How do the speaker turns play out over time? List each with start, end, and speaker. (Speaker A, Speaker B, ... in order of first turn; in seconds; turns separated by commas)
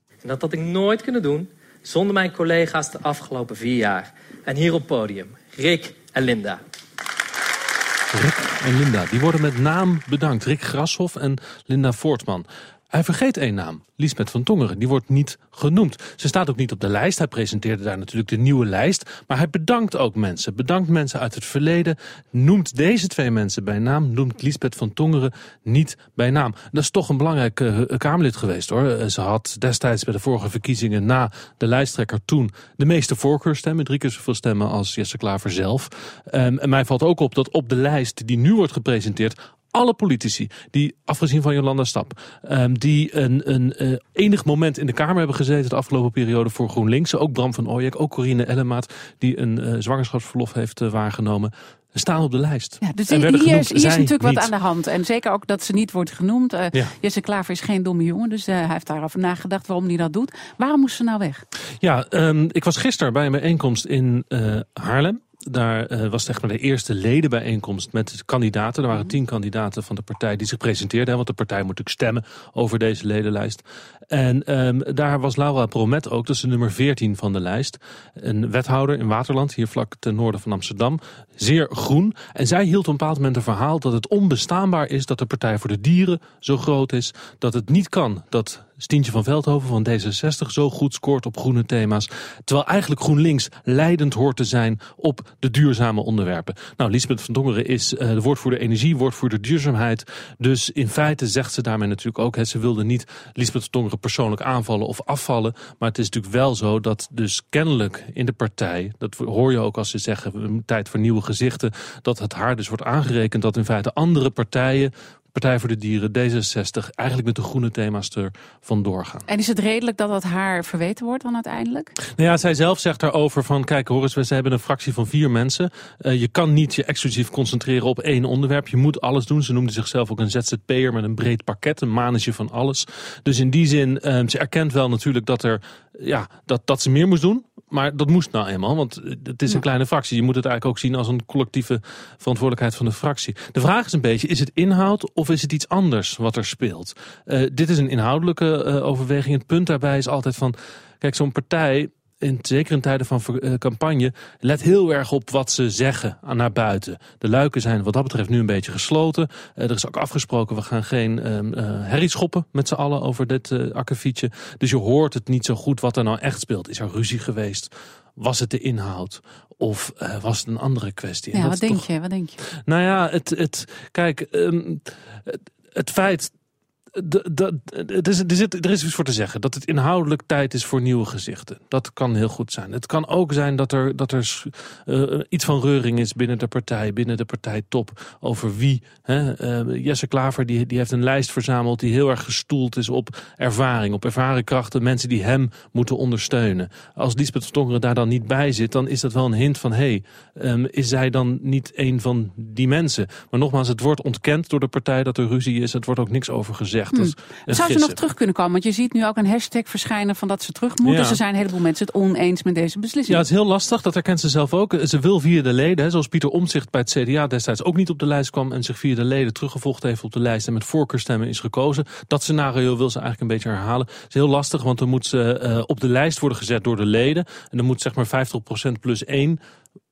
Speaker A: 0.2-6.6, Speaker B: 8.1-54.5, Speaker C: 52.8-61.4, Speaker B: 61.8-119.3, Speaker C: 119.3-121.9, Speaker B: 122.1-171.8, Speaker C: 171.3-172.4, Speaker B: 172.7-176.3, Speaker B: 176.9-208.0, Speaker C: 206.9-213.2, Speaker B: 210.8-211.2, Speaker B: 213.1-229.4